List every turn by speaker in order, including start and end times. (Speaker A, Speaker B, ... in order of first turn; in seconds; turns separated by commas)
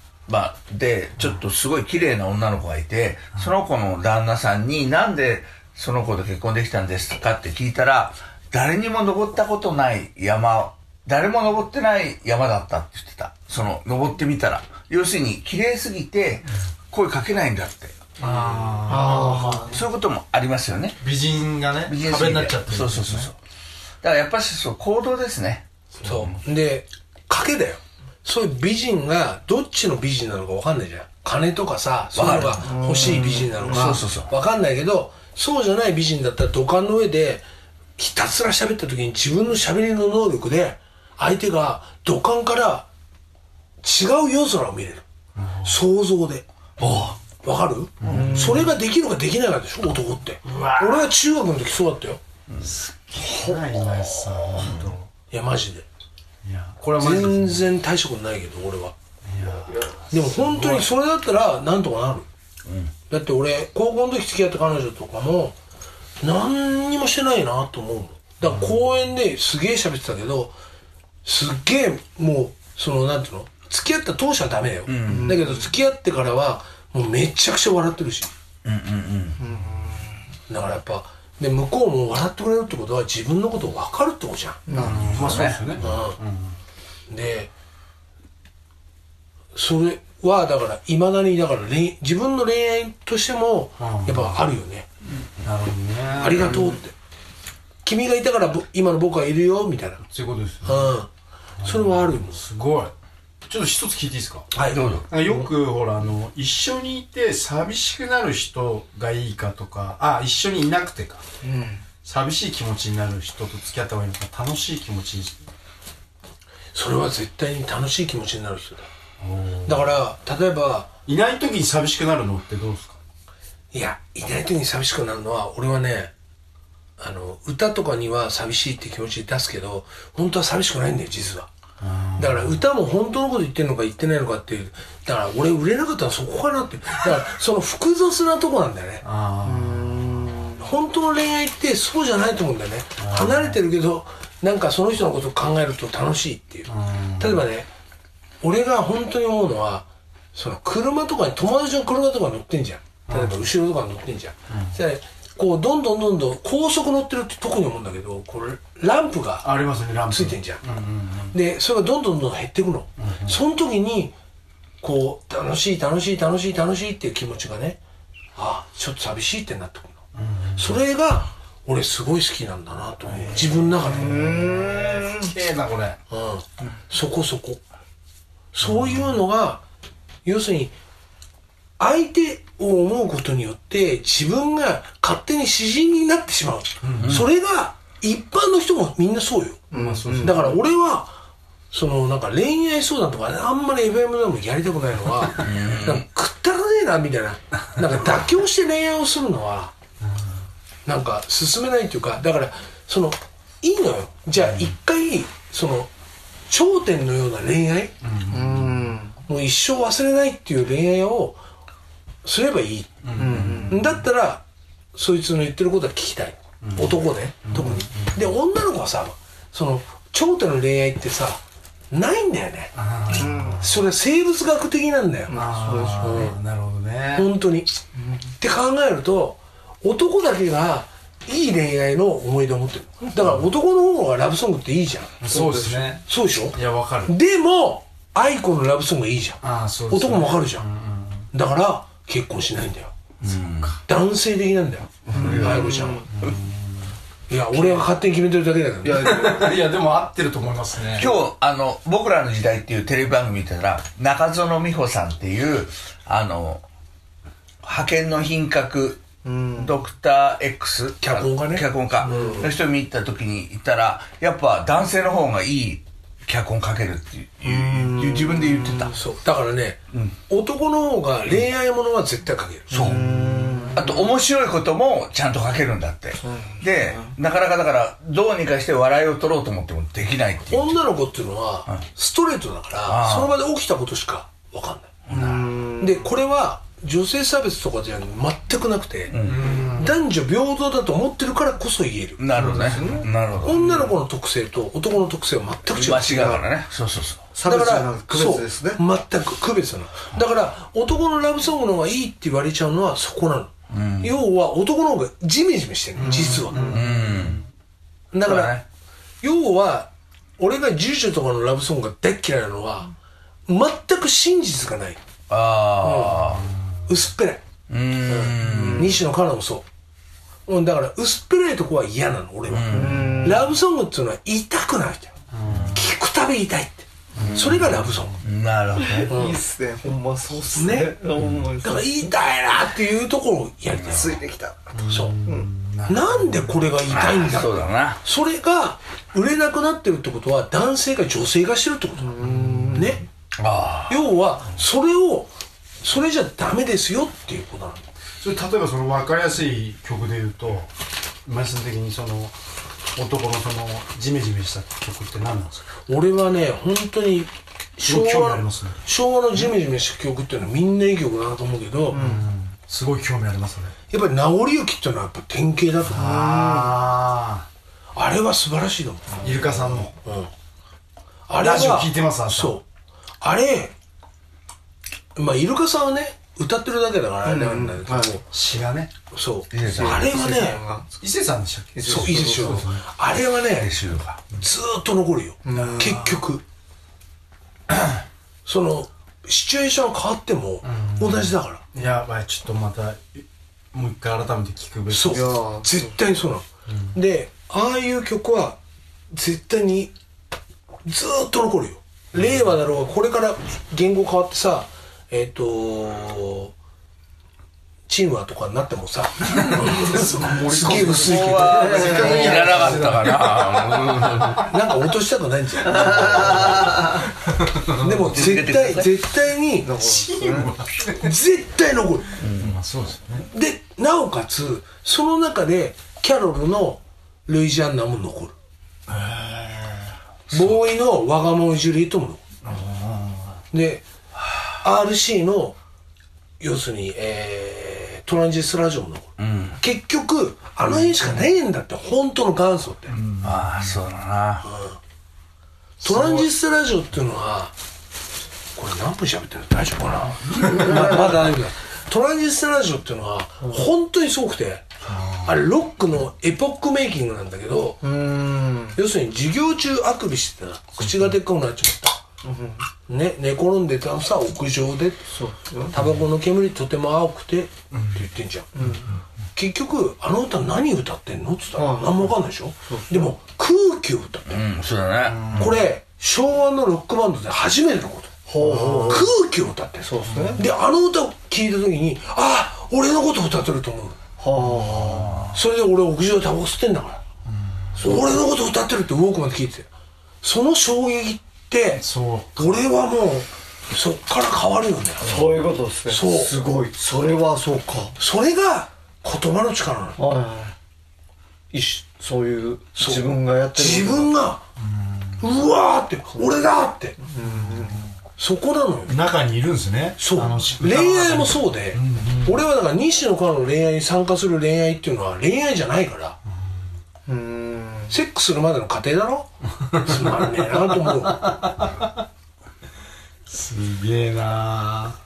Speaker A: 0.3-18.5, Speaker B: 18.2-19.8, Speaker C: 18.9-19.8, Speaker A: 19.7-21.0, Speaker B: 21.0-23.3, Speaker A: 21.9-23.4, Speaker A: 24.0-25.6, Speaker B: 25.9-26.4, Speaker D: 26.0-37.4, Speaker A: 32.1-34.3, Speaker C: 32.6-34.0, Speaker D: 38.0-42.9, Speaker D: 43.8-45.0, Speaker B: 45.4-45.8, Speaker D: 45.6-46.4, Speaker A: 46.8-47.2, Speaker D: 47.4-52.2, Speaker B: 48.0-48.7, Speaker C: 48.0-48.7, Speaker B: 50.4-51.1, Speaker B: 52.6-55.1, Speaker A: 54.6-54.9, Speaker D: 55.3-55.8, Speaker B: 56.4-57.6, Speaker D: 57.0-58.9, Speaker B: 59.2-60.9, Speaker C: 59.7-59.9, Speaker D: 60.1-62.3, Speaker A: 62.6-62.9, Speaker D: 63.1-65.5, Speaker D: 66.2-70.5, Speaker B: 68.4-68.8, Speaker D: 71.2-78.3, Speaker A: 74.9-75.4, Speaker C: 75.0-75.7, Speaker A: 78.6-79.4, Speaker C: 79.4-80.2, Speaker D: 80.5-84.6, Speaker C: 84.7-85.4, Speaker B: 84.7-86.6, Speaker A: 84.8-85.6, Speaker D: 85.8-86.2, Speaker D: 87.1-87.5, Speaker D: 89.5-94.8, Speaker B: 93.8-94.4, Speaker B: 95.4-96.8, Speaker D: 96.2-96.9, Speaker D: 97.8-100.0, Speaker B: 100.0-100.9, Speaker D: 100.6-101.1, Speaker B: 101.6-102.9, Speaker D: 101.6-102.4, Speaker B: 103.5-104.5, Speaker D: 104.5-104.9, Speaker A: 104.7-105.1, Speaker B: 105.1-111.2, Speaker C: 111.4-111.8, Speaker B: 112.0-115.5, Speaker D: 116.7-118.9, Speaker B: 119.2-119.9, Speaker D: 119.6-120.9, Speaker B: 121.0-123.0, Speaker D: 123.7-126.1, Speaker D: 127.0-131.5, Speaker B: 131.8-132.6, Speaker D: 132.2-139.0, Speaker B: 139.0-140.5, Speaker C: 139.4-140.7, Speaker D: 140.6-147.7, Speaker B: 143.0-143.6, Speaker B: 146.7-147.4, Speaker D: 148.4-159.5, Speaker B: 153.1-153.4, Speaker B: 154.5-154.8, Speaker B: 159.4-161.3, Speaker D: 160.1-160.6, Speaker D: 161.3-164.1, Speaker B: 163.0-163.4, Speaker D: 164.8-167.8, Speaker D: 168.3-170.0, Speaker B: 170.1-170.8, Speaker D: 170.6-174.3, Speaker B: 173.1-176.0, Speaker C: 173.8-175.3, Speaker D: 176.1-177.6, Speaker D: 178.5-179.6, Speaker B: 178.6-179.1, Speaker D: 180.2-180.7, Speaker D: 181.8-189.6, Speaker B: 186.8-187.2, Speaker A: 187.0-187.3, Speaker C: 189.7-190.4, Speaker B: 189.7-190.6, Speaker D: 190.2-191.2, Speaker D: 191.7-199.7, Speaker A: 195.4-196.0, Speaker B: 200.0-200.4, Speaker D: 200.8-205.9, Speaker B: 204.3-204.7, Speaker D: 206.5-207.9, Speaker B: 208.0-208.9, Speaker C: 208.3-209.2, Speaker D: 209.2-211.4, Speaker D: 212.2-212.9, Speaker B: 213.0-213.9, Speaker C: 213.1-213.9, Speaker D: 213.5-214.4, Speaker D: 214.9-225.3, Speaker B: 216.6-218.3, Speaker B: 222.8-223.7, Speaker C: 223.1-223.7, Speaker C: 225.3-226.3, Speaker B: 225.3-227.3, Speaker D: 226.0-226.4, Speaker D: 227.1-227.7, Speaker C: 228.0-228.2, Speaker D: 228.4-235.2, Speaker B: 233.2-233.4, Speaker B: 235.2-237.1, Speaker C: 235.2-235.9, Speaker D: 236.1-240.7, Speaker B: 239.4-241.3, Speaker D: 241.3-242.9, Speaker A: 243.2-243.8, Speaker D: 243.8-246.1, Speaker B: 245.1-246.9, Speaker C: 245.1-246.2, Speaker D: 247.3-249.3, Speaker C: 248.8-249.6, Speaker B: 248.9-251.1, Speaker A: 250.9-256.6, Speaker A: 257.6-268.9, Speaker C: 259.2-259.8, Speaker D: 261.0-262.5, Speaker C: 262.1-262.4, Speaker C: 267.4-269.0, Speaker D: 268.9-272.7, Speaker A: 272.7-273.1, Speaker C: 272.7-274.1, Speaker B: 272.8-273.8, Speaker A: 273.7-280.8, Speaker C: 276.2-277.1, Speaker D: 280.5-284.9, Speaker A: 282.8-283.3, Speaker A: 285.1-285.5, Speaker C: 285.1-286.1, Speaker B: 285.1-285.4, Speaker D: 285.8-292.2, Speaker A: 289.1-289.6, Speaker B: 289.2-289.9, Speaker A: 292.2-293.6, Speaker B: 292.3-293.1, Speaker C: 292.4-293.1, Speaker D: 293.4-296.2, Speaker C: 293.6-293.9, Speaker A: 295.7-297.2, Speaker C: 296.0-296.4, Speaker C: 297.3-298.8, Speaker D: 297.4-306.8, Speaker A: 303.7-304.2, Speaker B: 305.9-307.4, Speaker C: 306.0-306.8, Speaker A: 306.5-307.4, Speaker D: 308.1-308.6, Speaker A: 308.2-308.6, Speaker D: 309.2-312.9, Speaker D: 313.5-315.0, Speaker A: 315.3-316.5, Speaker D: 315.8-317.4, Speaker A: 317.7-319.0, Speaker D: 318.1-319.6, Speaker C: 318.4-319.0, Speaker D: 320.4-325.1, Speaker A: 322.5-323.3, Speaker C: 322.7-323.5, Speaker B: 325.3-325.9, Speaker D: 325.7-328.2, Speaker B: 327.1-328.1, Speaker A: 327.2-329.2, Speaker C: 328.8-332.1, Speaker D: 329.1-329.4, Speaker D: 330.5-331.0, Speaker D: 331.6-334.2, Speaker C: 333.8-335.5, Speaker B: 334.7-336.7, Speaker D: 334.9-335.2, Speaker D: 335.9-343.0, Speaker A: 336.9-338.0, Speaker C: 342.0-343.0, Speaker B: 342.2-343.0, Speaker A: 343.4-344.0, Speaker D: 343.9-347.8, Speaker B: 348.2-350.7, Speaker B: 351.2-352.3, Speaker B: 352.9-355.7, Speaker D: 355.9-362.0, Speaker B: 357.8-358.8, Speaker C: 361.9-362.3, Speaker B: 361.9-363.7, Speaker D: 363.9-366.3, Speaker B: 365.8-367.4, Speaker C: 365.9-366.8, Speaker D: 367.9-369.4, Speaker B: 369.2-369.9, Speaker D: 370.0-370.3, Speaker D: 371.3-372.6, Speaker B: 371.3-372.6, Speaker D: 373.2-373.7, Speaker D: 375.1-378.2, Speaker C: 377.2-378.2, Speaker B: 378.3-378.9, Speaker D: 379.1-380.6, Speaker A: 379.5-380.1, Speaker C: 379.6-380.9, Speaker B: 380.9-382.8, Speaker C: 381.7-382.6, Speaker D: 381.8-383.8, Speaker A: 383.6-384.2, Speaker D: 384.3-386.4, Speaker C: 385.4-386.1, Speaker B: 385.5-386.2, Speaker D: 388.4-391.6, Speaker B: 390.6-395.4, Speaker D: 394.9-398.6, Speaker C: 395.1-396.0, Speaker D: 399.1-399.9, Speaker D: 400.9-406.5, Speaker B: 402.1-402.5, Speaker D: 407.9-412.4, Speaker B: 409.4-414.5, Speaker A: 410.6-414.5, Speaker C: 411.4-412.9, Speaker D: 414.4-416.9, Speaker C: 415.6-417.1, Speaker B: 417.3-418.1, Speaker D: 417.7-419.7, Speaker A: 418.1-419.0, Speaker C: 419.6-420.5, Speaker B: 419.8-421.1, Speaker D: 421.0-422.1, Speaker A: 422.2-422.6, Speaker B: 422.4-423.3, Speaker D: 423.3-428.3, Speaker B: 428.9-429.9, Speaker D: 430.3-432.2, Speaker B: 432.4-433.3, Speaker D: 433.5-433.9, Speaker D: 434.6-435.6, Speaker D: 436.4-443.0, Speaker A: 439.2-439.6, Speaker B: 442.9-443.8, Speaker A: 443.2-444.4, Speaker D: 444.4-444.8, Speaker D: 445.8-447.5, Speaker B: 445.8-446.3, Speaker D: 448.6-454.6, Speaker C: 450.6-451.1, Speaker B: 454.8-455.4, Speaker D: 455.2-457.8, Speaker C: 457.8-458.8, Speaker D: 458.7-462.0, Speaker B: 460.8-461.1, Speaker C: 462.2-462.7, Speaker D: 462.9-465.0, Speaker C: 465.1-465.7, Speaker D: 465.7-468.5, Speaker B: 467.7-468.0, Speaker C: 468.6-468.9, Speaker D: 469.3-474.4, Speaker C: 471.6-473.1, Speaker A: 474.3-475.5, Speaker B: 475.1-475.6, Speaker D: 475.3-484.0, Speaker C: 478.3-479.1, Speaker B: 478.4-479.1, Speaker C: 479.8-480.4, Speaker B: 480.1-480.4, Speaker C: 484.2-485.3, Speaker B: 484.3-485.3, Speaker D: 485.3-487.0, Speaker B: 487.2-488.1, Speaker D: 487.8-489.7, Speaker D: 490.2-491.8, Speaker B: 491.8-492.6, Speaker D: 492.4-495.2, Speaker C: 495.0-497.9, Speaker D: 495.9-496.3, Speaker D: 498.0-500.0, Speaker C: 500.0-500.5, Speaker C: 501.5-504.1, Speaker D: 502.7-504.4, Speaker B: 504.6-505.2, Speaker D: 505.2-507.0, Speaker C: 506.1-506.4, Speaker C: 507.0-507.9, Speaker B: 507.2-507.9, Speaker D: 508.2-509.0, Speaker B: 508.9-512.4, Speaker D: 510.0-516.2, Speaker B: 516.3-516.6, Speaker C: 517.0-517.9, Speaker D: 517.9-521.4, Speaker B: 519.6-522.0, Speaker B: 523.3-525.0